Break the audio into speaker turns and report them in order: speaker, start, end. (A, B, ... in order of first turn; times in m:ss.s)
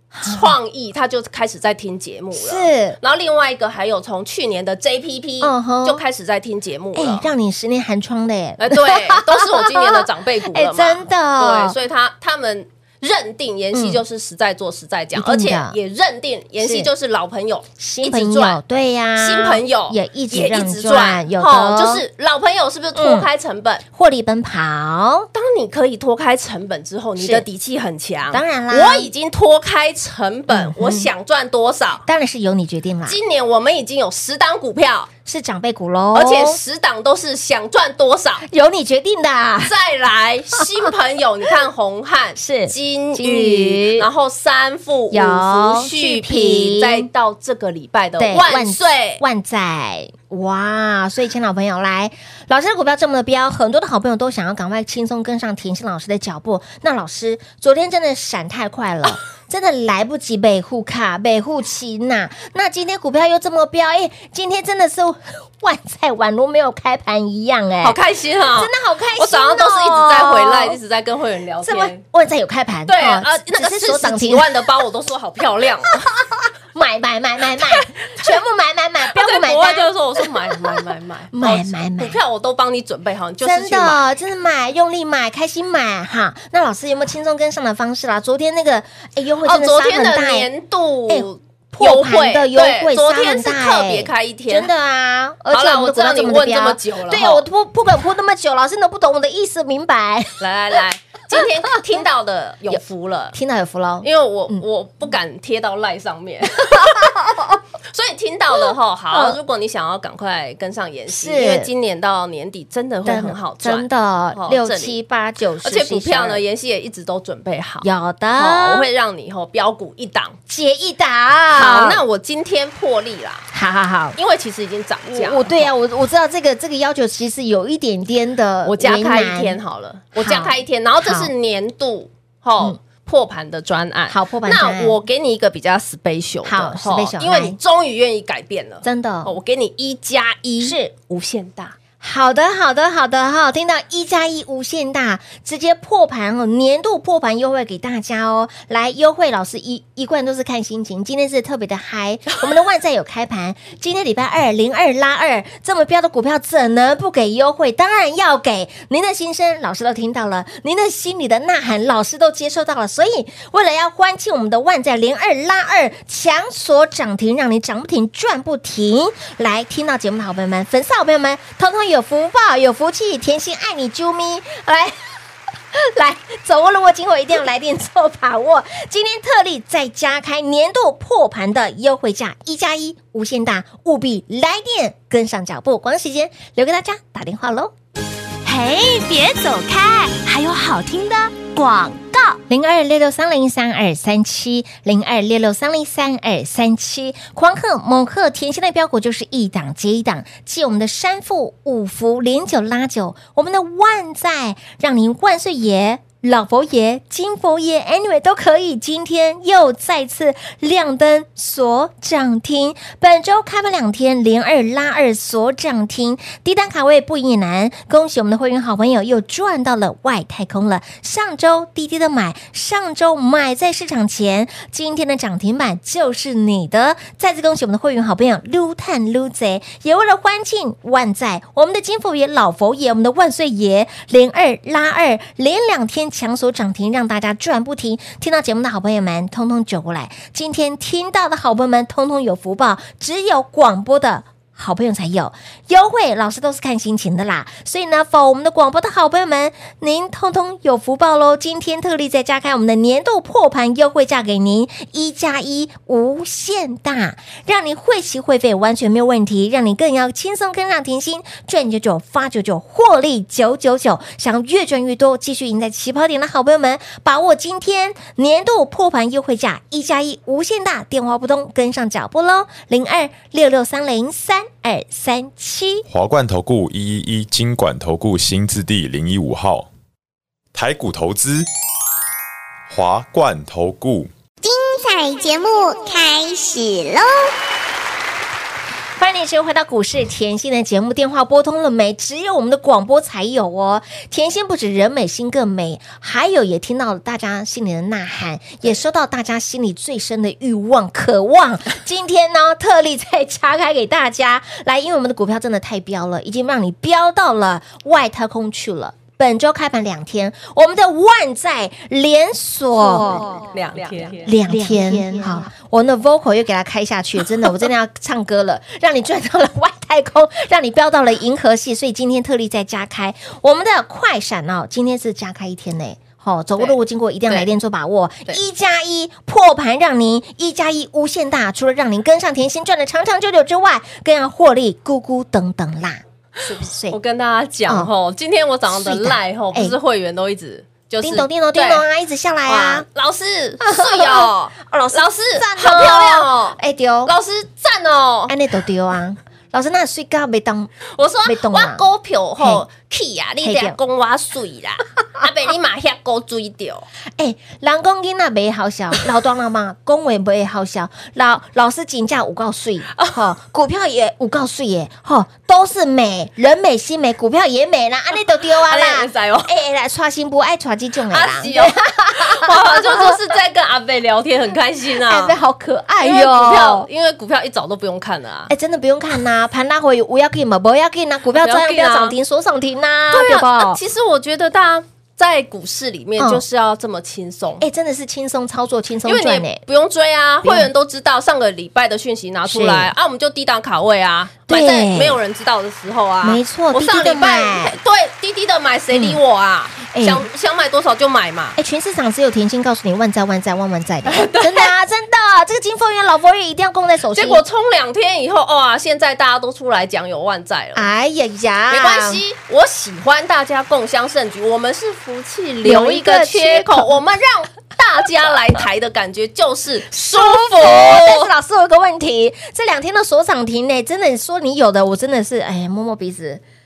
0:00.2-0:00.6 A
0:00.2-0:07.3 B
0:02.4-0:03.0 A
0:05.4-0:06.0 A
0:07.0-0:11.8 A
0:08.6-0:18.6 B
0:13.7-0:14.0 A
0:15.2-0:15.8 A
0:16.6-0:16.9 A
0:17.8-0:22.0 A
0:19.2-0:23.8 B
0:23.0-0:23.3 A
0:23.9-0:25.3 A
0:25.3-0:32.0 B
0:27.2-0:27.5 A
0:28.3-0:29.1 A
0:30.5-0:31.1 A
0:32.0-0:33.2 A
0:33.1-0:35.1 B
0:35.3-0:36.6 A
0:36.1-0:38.4 B
0:38.5-0:39.7 A
0:39.6-0:49.2 B
0:40.6-0:40.9 A
0:42.4-0:44.1 A
0:45.1-0:47.1 A
0:48.2-1:08.0 A
1:07.8-1:12.0 B
1:08.6-1:10.8 A
1:11.6-1:14.5 A
1:12.9-1:16.1 B
1:16.1-1:20.8 A
1:19.1-1:24.0 B
1:21.3-1:22.2 A
1:23.4-1:30.5 A
1:29.4-1:34.7 B
1:31.1-1:40.4 A
1:35.5-1:37.4 B
1:40.4-1:43.4 B
1:43.3-1:44.6 A
1:44.0-1:47.1 B
1:46.6-1:47.6 A
1:47.9-1:55.0 B
1:49.1-1:49.4 A
1:51.1-1:51.7 A
1:53.0-1:56.4 A
1:55.6-2:00.4 B
1:57.8-1:58.9 A
2:00.5-2:02.0 A
2:01.5-2:03.5 B
2:03.5-2:04.2 A
2:04.2-2:05.7 B
2:05.1-2:09.6 A
2:08.6-2:21.8 B
2:10.2-2:11.3 A
2:14.1-2:15.0 A
2:16.4-2:17.6 A
2:18.8-2:19.4 A
2:20.6-2:20.9 A
2:22.0-2:55.0 A
2:55.7-3:07.7 A
3:08.4-3:12.4 C
3:12.5-4:35.9 A
4:35.9-4:39.7 D
4:40.5-4:41.5 D
4:42.7-4:44.1 D
4:44.4-4:47.3 E
4:49.0-5:13.5 A
5:12.8-5:14.8 B
5:14.1-5:37.0 A
5:36.5-5:41.8 B
5:38.7-5:39.8 A
5:41.0-5:42.9 A
5:42.5-5:48.3 B
5:43.6-5:47.1 A
5:48.3-5:50.7 A
5:50.9-5:56.9 B
5:51.2-5:51.8 A
5:52.4-5:52.6 A
5:53.4-5:53.8 A
5:57.2-6:13.2 A
6:08.6-6:09.5 B
6:11.1-6:15.4 B
6:15.1-6:16.9 A
6:16.0-6:18.5 B
6:18.5-6:23.8 A
6:21.4-6:22.2 B
6:23.1-6:27.6 B
6:26.2-6:26.4 A
6:27.6-6:29.6 A
6:29.1-6:41.6 B
6:30.4-6:30.7 A
6:32.5-6:32.9 A
6:34.5-6:35.2 A
6:36.2-6:37.8 A
6:38.9-6:39.2 A
6:39.9-6:40.3 A
6:41.6-6:47.4 A
6:44.1-6:44.7 B
6:47.1-6:50.9 B
6:50.8-6:52.2 A
6:51.7-7:01.3 B
6:55.6-6:57.0 A
6:59.9-7:06.4 A